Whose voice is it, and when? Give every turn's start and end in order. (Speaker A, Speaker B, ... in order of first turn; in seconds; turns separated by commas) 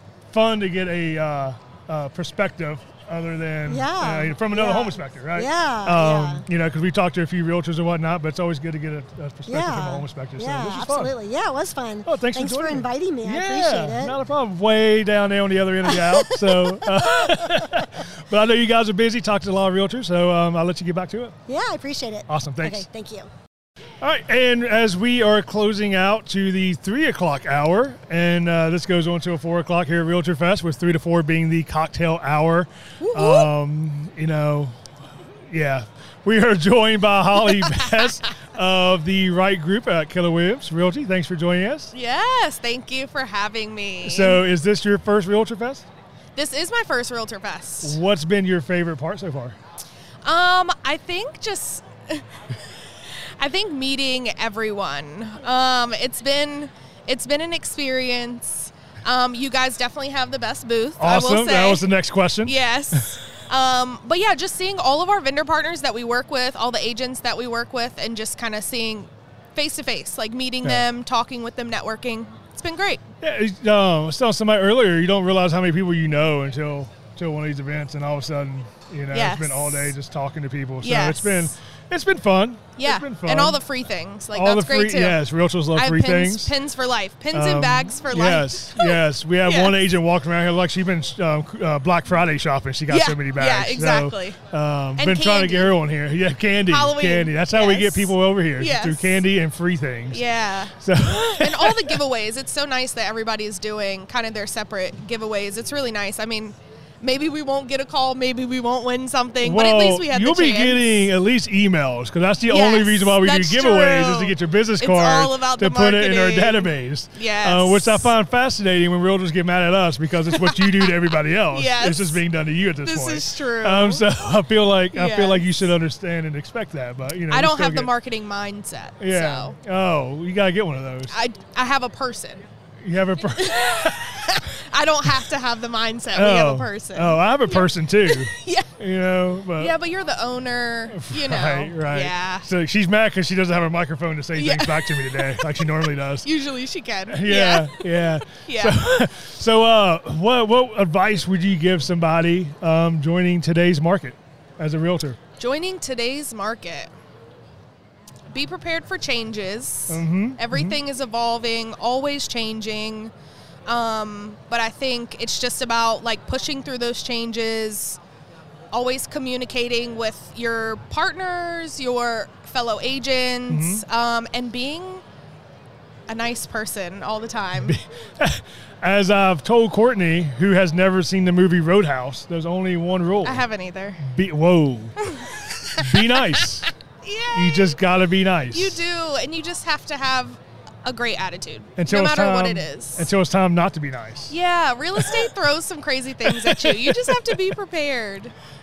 Speaker A: 0.3-11.1, Speaker B: 3.7-6.4, Speaker B: 9.5-14.2, Speaker A: 12.0-21.4, Speaker B: 15.9-17.3, Speaker B: 21.5-23.3, Speaker A: 22.3-22.9, Speaker A: 24.0-34.8, Speaker C: 33.0-33.5, Speaker A: 35.5-41.9, Speaker C: 41.9-44.4, Speaker A: 44.0-45.9, Speaker C: 46.4-48.0, Speaker A: 47.8-49.6, Speaker C: 50.2-52.3, Speaker C: 53.4-61.9, Speaker A: 61.0-63.1, Speaker C: 62.5-73.0, Speaker A: 73.2-83.6, Speaker C: 79.1-79.9, Speaker C: 80.8-81.5, Speaker C: 82.8-85.2, Speaker A: 84.3-86.5, Speaker C: 85.8-89.8, Speaker A: 87.3-100.2, Speaker C: 92.9-94.4, Speaker C: 95.0-95.8, Speaker C: 96.7-99.2, Speaker C: 100.1-111.1, Speaker A: 100.8-102.0, Speaker A: 109.4-127.9, Speaker C: 112.5-118.1, Speaker C: 120.3-122.2, Speaker C: 122.8-124.0, Speaker C: 124.9-125.7, Speaker C: 127.3-129.6, Speaker A: 129.0-131.2, Speaker C: 131.1-132.5, Speaker A: 132.8-134.3, Speaker C: 133.3-138.7, Speaker A: 136.1-139.8, Speaker C: 139.6-142.5, Speaker A: 140.9-146.3, Speaker C: 144.3-145.7, Speaker C: 146.2-148.8, Speaker A: 147.1-155.2, Speaker C: 155.4-156.9, Speaker C: 158.3-163.1, Speaker A: 159.9-160.8, Speaker C: 163.7-168.0, Speaker C: 168.7-175.0, Speaker A: 173.5-173.8, Speaker C: 176.1-177.8, Speaker A: 177.5-183.4, Speaker C: 183.2-184.0, Speaker A: 184.0-184.9, Speaker C: 185.0-185.9, Speaker A: 185.8-186.7, Speaker C: 187.0-187.8, Speaker A: 187.3-188.8, Speaker C: 188.5-193.1, Speaker A: 191.8-194.4, Speaker C: 194.3-198.3, Speaker A: 195.0-195.3, Speaker A: 196.2-197.6